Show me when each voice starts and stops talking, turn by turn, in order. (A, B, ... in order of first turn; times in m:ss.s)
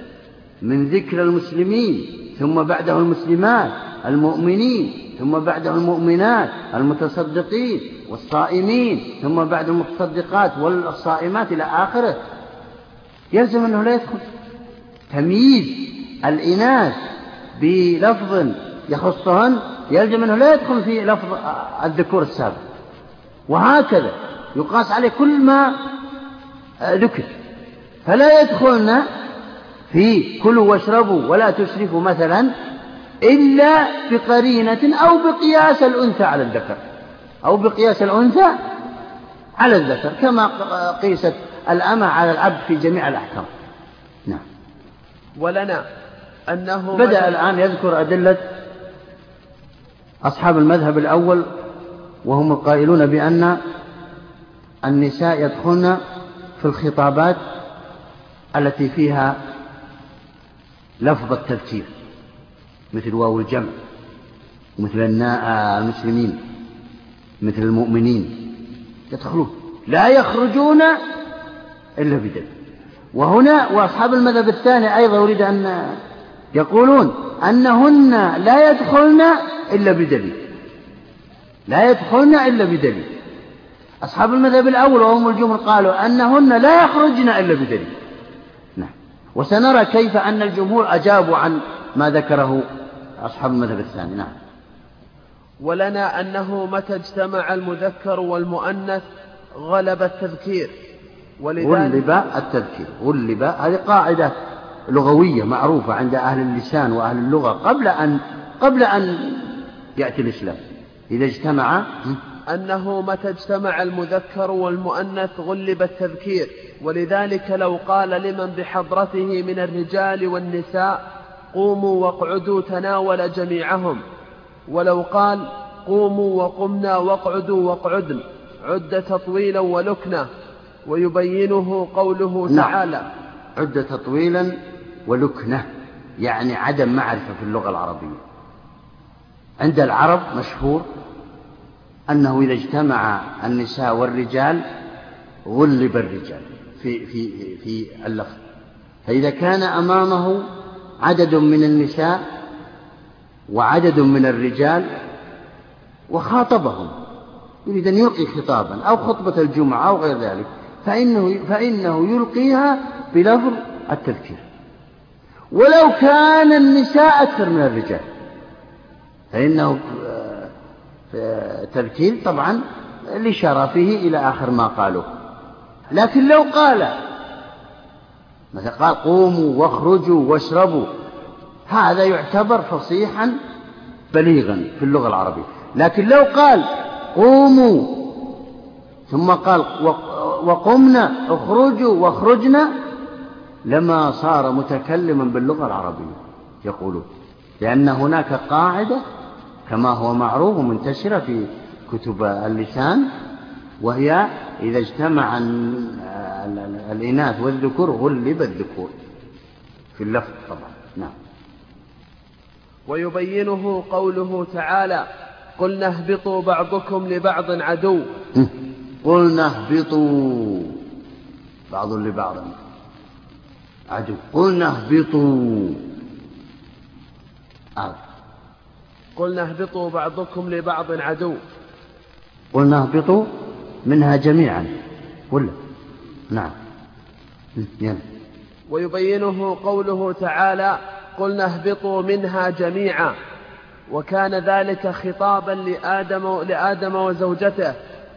0:00.6-0:12.2 A
0:13.3-0:14.2 A
0:15.1-0:17.0 A
0:17.6-0:22.6 A
0:23.5-0:25.8 A
0:26.8-0:27.3 A
0:28.1-0:29.1 A
0:29.9-0:32.5 A
0:33.2-0:36.8 A
0:37.4-0:38.6 A
0:39.6-0:43.5 A
0:45.4-0:45.8 B
0:46.5-0:47.4 B
0:47.0-0:48.4 A
0:50.2-0:51.5 A
0:52.2-0:53.6 A
0:54.8-0:56.0 A
0:56.6-0:57.4 A
0:58.6-0:59.4 A
1:01.0-1:01.9 A
1:02.9-1:03.8 A
1:04.8-1:06.4 A
1:07.4-1:08.5 A
1:09.1-1:11.0 A
1:12.0-1:12.5 A
1:13.1-1:16.0 A
1:16.5-1:20.4 A
1:21.7-1:23.1 A
1:24.0-1:27.9 A
1:28.8-1:32.7 A
1:33.2-1:34.4 A
1:35.6-1:39.0 B
1:39.6-1:40.7 B
1:41.4-1:42.0 B
1:41.6-1:44.4 A
1:44.9-1:52.2 A
1:52.5-2:01.0 B
2:01.5-2:04.0 B
2:04.7-2:10.3 B
2:10.9-2:13.0 B
2:12.5-2:12.7 A
2:13.6-2:14.5 A
2:15.1-2:15.7 A
2:16.2-2:18.2 A
2:19.6-2:20.9 A
2:22.1-2:24.6 A
2:25.5-2:28.4 A
2:29.1-2:30.4 A
2:31.0-2:32.2 A
2:33.5-2:34.9 A
2:36.1-2:36.9 A
2:37.7-2:44.4 A
2:45.5-2:48.0 A
2:49.3-2:50.5 A
2:51.1-2:52.6 A
2:53.1-2:55.1 A
2:55.9-2:57.0 A
2:58.5-3:00.9 A
3:01.7-3:03.4 A
3:04.1-3:08.2 A
3:09.1-3:12.7 A
3:13.7-3:17.1 A
3:17.6-3:19.0 A
3:19.7-3:23.1 A
3:23.8-3:28.9 A
3:30.0-3:31.2 A
3:32.9-3:35.1 B
3:35.6-3:38.1 B
3:39.0-3:40.8 A
3:41.7-3:42.6 A
3:43.9-3:45.8 A
3:49.2-3:51.4 B
3:52.5-3:53.3 A
3:53.9-3:54.7 A
3:57.6-3:58.0 A
3:58.7-4:03.2 B
4:03.9-4:07.8 B